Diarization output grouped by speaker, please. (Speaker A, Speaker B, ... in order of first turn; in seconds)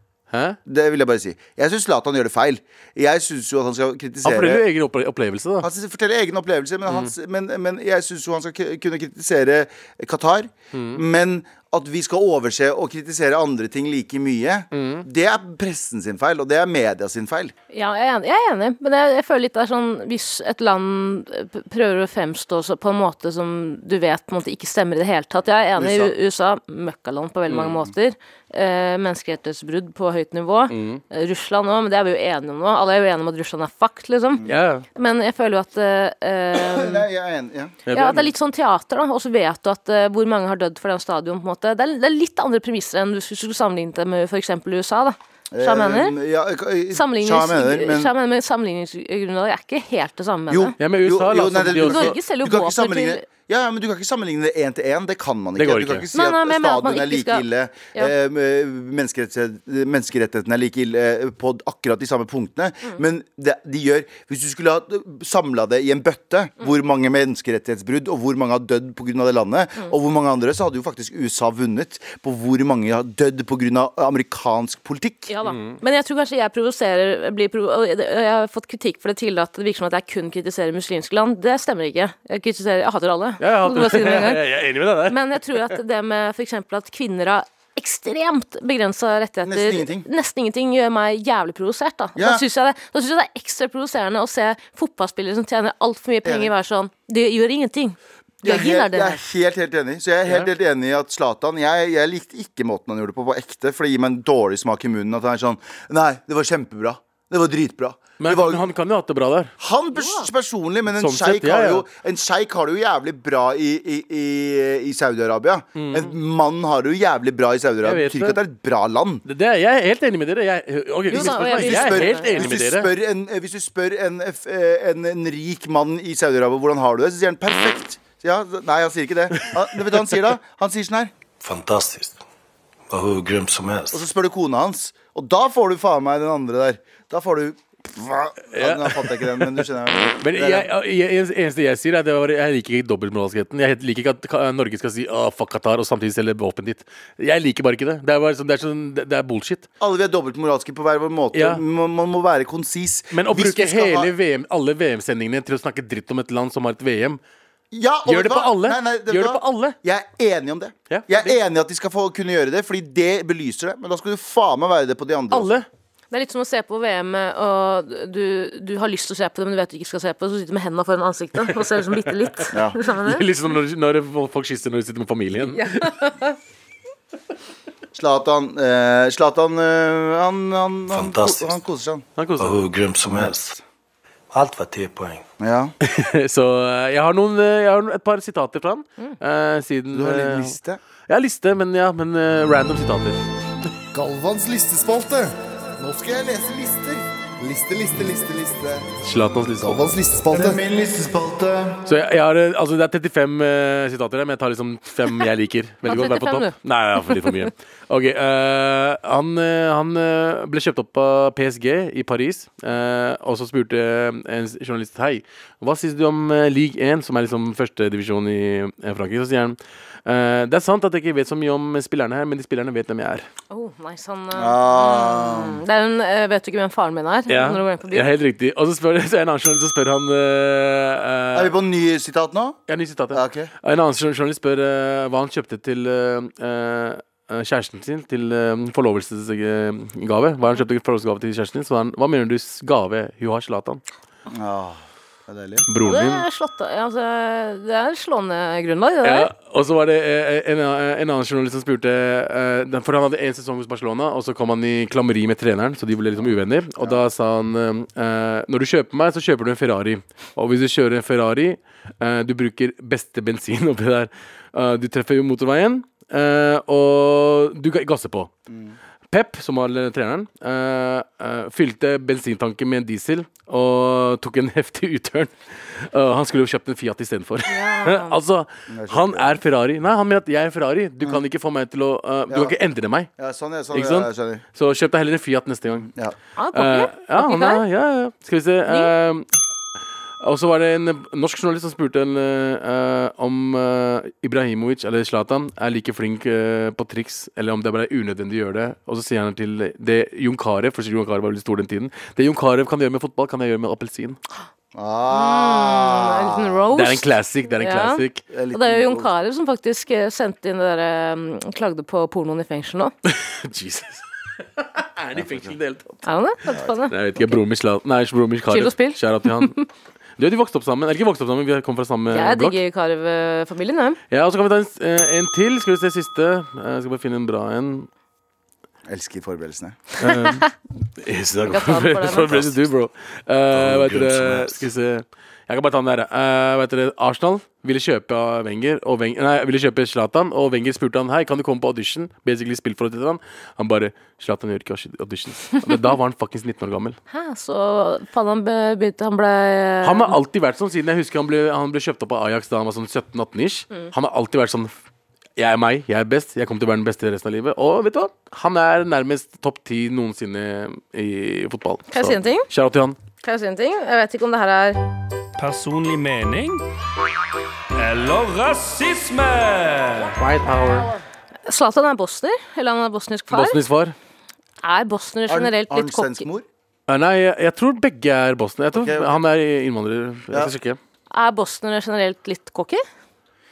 Speaker A: 0.3-0.6, 4.2-5.7, 6.9-7.1, 10.7-11.0, 14.7-15.1, 27.5-27.7, 30.7-31.0, 34.5-34.9, 37.9-38.3, 50.8-52.2, 55.6-56.1, 75.4-75.8, 83.4-85.6, 108.2-109.5, 110.9-111.8, 115.8-116.1, 117.8-118.4, 119.2-122.9, 129.4-129.9, 138.5-139.6, 140.2-149.7, 151.3-151.6, 153.1-157.2, 158.1-159.8, 160.9-161.3, 165.3-165.7, 172.8-175.9, 182.2-182.6, 185.8-190.5, 191.1-193.2, 199.0-199.8, 201.8-223.3, 227.3-231.5, 232.7-243.8, 245.7-246.2, 249.0-268.3, 269.1-283.1, 283.7-285.9, 286.5-289.3, 290.2-304.2, 306.7-308.2, 313.1-314.0, 314.6-315.9, 316.9-319.5, 320.2-322.6, 324.1-327.9, 330.0-330.5, 331.0-347.0, 349.8-354.7, 355.4-363.0, 370.1-370.9, 373.3-373.9, 376.9-380.8
Speaker B: 0.7-4.6, 5.6-17.5, 25.8-26.1, 36.6-37.8, 45.5-48.1, 50.5-75.3, 89.4-90.1, 92.2-92.4, 96.2-96.5, 98.4-108.7, 109.6-119.2, 121.1-131.1, 133.9-140.7, 149.8-154.1, 157.7-165.5, 172.5-172.8, 177.9-182.0, 183.1-183.3, 185.4-185.7, 189.9-190.8, 195.9-197.0, 200.3-201.8, 224.3-225.6, 231.3-232.6, 233.1-233.5, 244.3-245.7, 268.5-268.8, 278.7-279.3, 282.3-282.5, 283.2-284.4, 285.8-286.1, 304.7-306.6, 308.3-309.1, 315.1-315.5, 328.9-329.8, 375.3-376.4, 378.7-379.2
Speaker C: 17.7-37.0, 37.9-46.1, 46.9-50.8, 51.8-53.2, 56.1-58.1, 75.3-84.4, 85.1-99.2, 110.0-110.3, 121.1-122.5, 166.1-173.2, 175.5-176.4, 205.9-207.3, 223.5-228.1, 245.8-249.3, 277.5-278.1, 286.4-287.6, 305.1-312.9, 316.0-317.0, 318.5-319.6, 322.1-324.0, 330.1-330.5, 331.5-332.3, 347.1-350.1, 361.9-362.5, 363.2-364.8, 371.4-373.6, 374.6-376.3, 381.1-382.8
Speaker D: 131.4-132.2, 132.9-134.0, 180.9-181.6, 182.4-183.6, 184.3-185.2, 332.3-332.6, 333.5-334.7
Speaker E: 193.9-196.1, 197.4-198.9, 199.6-200.6
Speaker F: 365.4-366.6, 367.7-370.2